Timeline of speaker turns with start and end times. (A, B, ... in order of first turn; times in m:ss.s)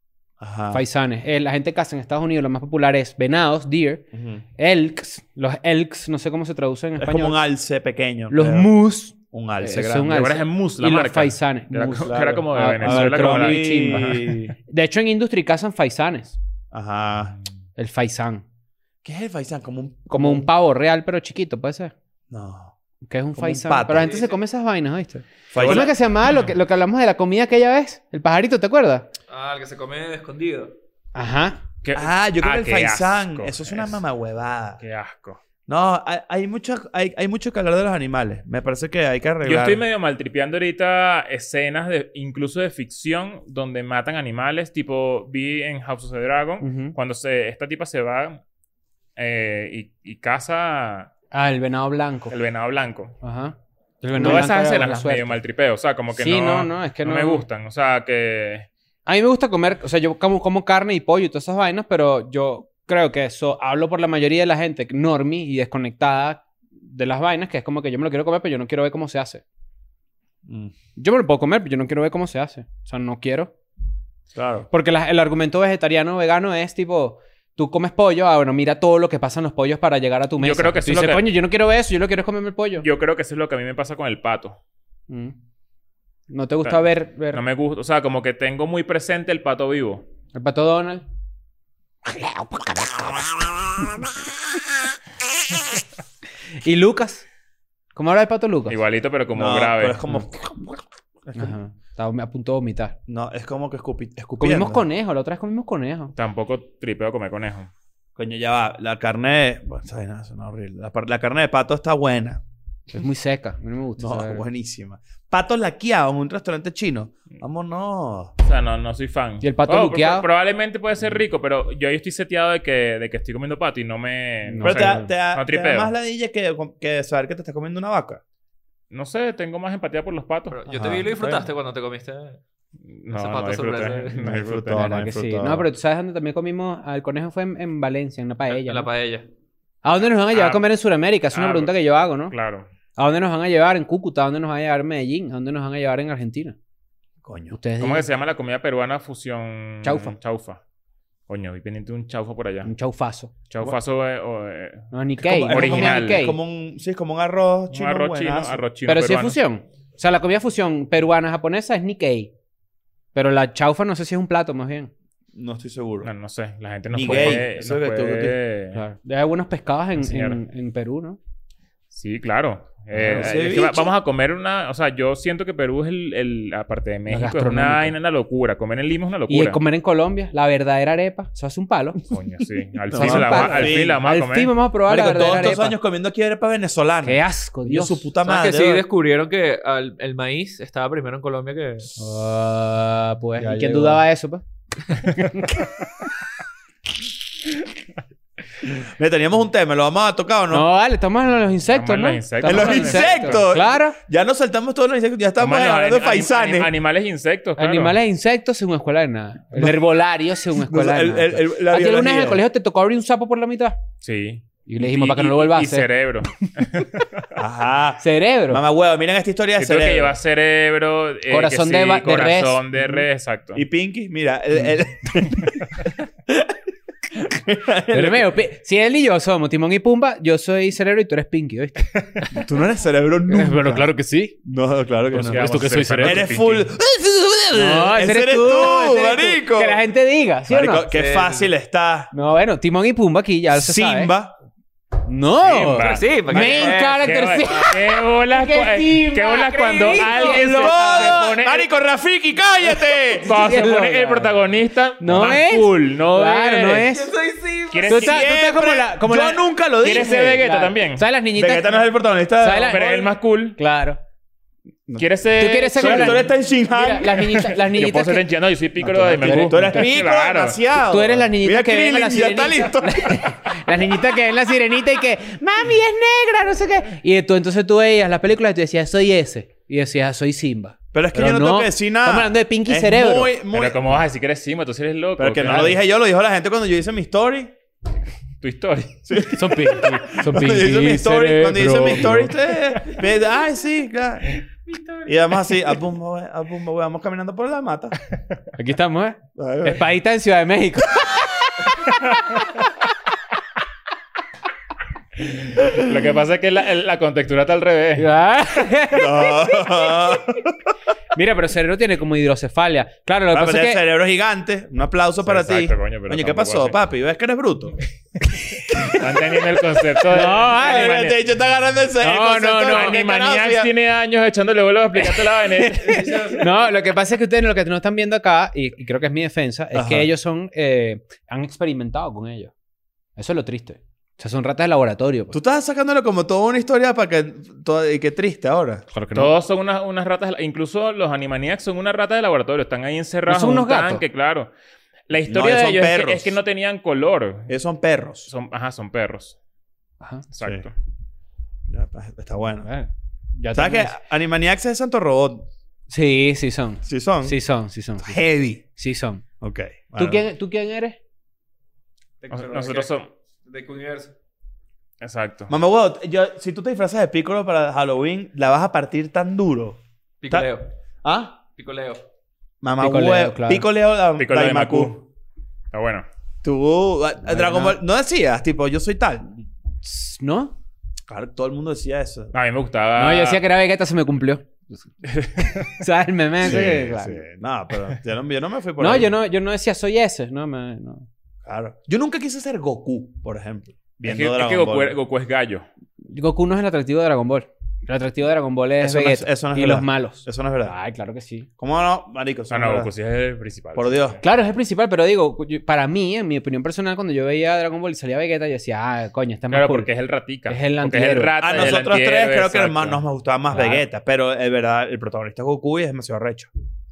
0:00.4-0:00.8 A
0:00.7-0:04.0 B
0:04.1-0:04.4 A
0:04.6-0:07.4 B
0:07.0-0:08.7 A
0:08.3-0:16.4 B
0:09.3-0:10.2 A
0:10.1-0:14.4 C
0:12.0-0:14.6 A
0:16.7-0:17.4 A
0:17.8-0:18.4 B
0:19.0-0:20.5 A
0:20.1-0:21.9 B
0:22.3-0:22.8 A
0:23.0-0:29.1 B
0:23.4-0:24.2 A
0:24.0-0:24.3 D
0:25.5-0:25.9 A
0:25.6-0:26.5 C
0:29.3-0:30.7 D
0:31.2-0:31.6 B
0:31.8-0:34.0 C
0:32.0-0:34.8 A
0:34.8-0:35.4 C
0:35.7-0:39.8 A
0:39.4-0:48.4 C
0:46.6-0:47.0 B
0:49.2-0:51.1 C
0:51.3-0:52.3 B
0:52.3-0:53.2 C
0:53.2-0:55.4 B
0:54.2-0:58.7 C
0:56.2-0:57.5 B
0:59.1-1:09.4 B
1:10.5-1:10.7 A
1:11.0-1:13.5 B
1:14.3-1:14.7 A
1:14.7-1:22.9 B
1:20.4-1:21.2 C
1:22.8-1:24.6 C
1:25.1-1:25.4 B
1:26.3-1:27.4 B
1:26.6-1:30.0 C
1:30.3-1:31.0 B
1:32.1-1:33.2 B
1:36.6-1:37.2 B
1:38.0-1:38.8 B
1:38.7-1:40.0 C
1:39.3-1:41.6 A
1:41.4-1:43.0 B
1:43.1-1:44.8 A
1:44.4-1:46.1 B
1:46.2-1:47.7 C
1:48.2-1:52.4 A
1:52.9-1:54.4 B
1:54.0-1:58.3 A
1:58.4-2:05.9 C
1:59.4-2:00.3 B
2:04.5-2:05.1 B
2:04.6-2:08.2 A
2:08.9-2:10.6 C
2:10.5-2:12.4 D
2:10.7-2:11.5 A
2:12.9-2:14.8 C
2:13.1-2:14.3 D
2:14.2-2:15.7 A
2:14.5-2:18.9 B
2:18.5-2:19.3 D
2:19.8-2:22.3 B
2:20.3-2:20.7 C
2:21.3-2:21.8 C
2:22.3-2:22.7 C
2:23.0-2:26.6 B
2:27.2-2:27.6 A
2:27.5-2:28.1 B
2:27.8-2:30.6 C
2:29.8-2:30.2 B
2:31.3-2:32.7 C
2:32.6-2:33.3 B
2:33.5-2:34.9 C
2:34.9-2:36.4 B
2:35.2-2:38.6 A
2:35.5-2:36.2 C
2:37.7-2:39.4 C
2:38.9-2:42.3 B
2:43.1-2:44.9 B
2:45.4-2:46.1 A
2:46.0-2:48.8 C
2:46.9-2:48.4 A
2:47.1-2:47.4 B
2:48.7-2:51.2 B
2:50.0-2:50.4 C
2:51.9-2:59.6 C
2:52.9-2:53.4 B
2:53.1-2:53.9 A
2:57.1-2:58.0 B
2:59.3-3:02.0 B
3:02.1-3:04.5 C
3:02.9-3:04.0 A
3:02.9-3:05.8 B
3:04.9-3:08.8 A
3:07.0-3:08.1 B
3:08.2-3:12.0 D
3:12.0-3:15.6 B
3:13.4-3:14.0 A
3:18.7-3:20.7 A
3:20.5-3:24.0 B
3:21.7-3:23.4 C
3:22.4-3:26.7 A
3:25.4-3:28.0 C
3:27.6-3:33.8 B
3:29.6-3:29.8 A
3:30.5-3:32.4 A
3:34.0-3:37.3 C
3:34.7-3:35.9 B
3:37.4-3:40.2 A
3:38.0-3:38.6 B
3:39.6-3:43.6 C
3:41.3-3:42.6 B
3:43.6-3:45.7 A
3:47.2-3:48.3 A
3:47.9-3:52.3 B
3:52.3-3:53.9 A
3:53.3-3:54.4 B
3:54.4-3:59.8 A
3:55.1-3:56.3 B
3:55.1-3:56.7 C
3:57.5-4:00.9 B
4:00.5-4:02.1 A
4:00.9-4:01.5 D
4:02.1-4:04.1 B
4:03.5-4:04.3 A
4:05.1-4:11.4 B
4:05.4-4:11.7 C
4:05.7-4:07.1 D
4:10.2-4:13.3 A
4:13.1-4:14.4 B
4:13.2-4:16.9 C
4:15.0-4:17.1 B
4:16.7-4:18.0 D
4:17.7-4:18.2 C
4:17.9-4:21.9 B
4:17.9-4:20.4 A
4:19.8-4:21.0 C
4:21.4-4:23.1 A
4:22.4-4:23.0 B
4:22.6-4:23.6 C
4:23.6-4:24.0 B
4:25.0-4:26.3 C
4:25.4-4:28.2 B
4:25.7-4:27.3 A
4:27.2-4:30.6 C
4:28.8-4:33.3 A
4:29.2-4:29.9 B
4:30.9-4:43.3 B
4:40.9-4:44.0 A
4:43.5-4:45.8 C
4:45.2-4:47.5 A
4:48.4-4:49.0 C
4:49.1-4:54.4 A
4:49.4-4:52.4 B
4:54.7-4:55.3 D
4:55.0-4:58.0 A
4:58.6-5:02.2 B
4:59.4-4:59.8 A
5:05.4-5:08.1 C
5:08.0-5:10.4 B
5:08.9-5:10.6 A
5:11.1-5:13.8 B
5:13.3-5:17.8 A
5:15.2-5:16.8 C
5:18.4-5:19.0 B
5:18.7-5:21.2 C
5:20.1-5:21.1 B
5:20.2-5:23.7 A
5:22.0-5:23.0 B
5:22.7-5:26.4 C
5:25.1-5:32.5 B
5:25.8-5:26.6 D
5:29.7-5:30.1 A
5:33.2-5:35.4 B
5:35.3-5:38.8 A
5:38.9-5:39.3 B
5:39.1-5:44.5 C
5:43.3-5:44.0 B
5:45.1-5:47.5 C
5:45.3-5:46.4 A
5:47.5-5:48.3 A
5:48.3-5:49.4 C
5:50.3-5:50.7 C
5:51.7-5:52.7 A
5:52.6-5:54.0 B
5:53.5-5:55.5 A
5:55.9-5:59.2 B
5:56.8-5:57.4 A
5:58.0-5:58.6 A
5:59.4-6:00.3 A
6:00.0-6:01.0 B
6:02.2-6:04.1 D
6:02.3-6:03.1 C
6:05.0-6:05.5 C
6:05.5-6:10.5 A
6:10.2-6:10.7 D
6:11.0-6:11.4 A
6:11.6-6:12.0 D
6:12.6-6:15.0 A
6:12.8-6:13.7 B
6:14.2-6:15.0 C
6:15.7-6:16.1 C
6:16.4-6:19.4 A
6:17.3-6:17.8 B
6:19.8-6:20.6 B
6:21.1-6:22.3 A
6:22.3-6:23.4 C
6:23.0-6:24.7 B
6:25.0-6:25.8 C
6:25.4-6:27.2 B
6:26.4-6:29.2 A
6:28.8-6:31.1 B
6:31.4-6:35.0 A
6:34.0-6:35.7 C
6:36.1-6:41.5 B
6:38.8-6:40.8 A
6:41.6-6:42.9 A
6:42.5-6:44.2 C
6:43.8-6:44.2 A
6:44.2-6:49.9 B
6:49.5-6:53.0 C
6:50.5-6:51.7 B
6:51.4-6:56.5 A
6:53.5-6:53.8 B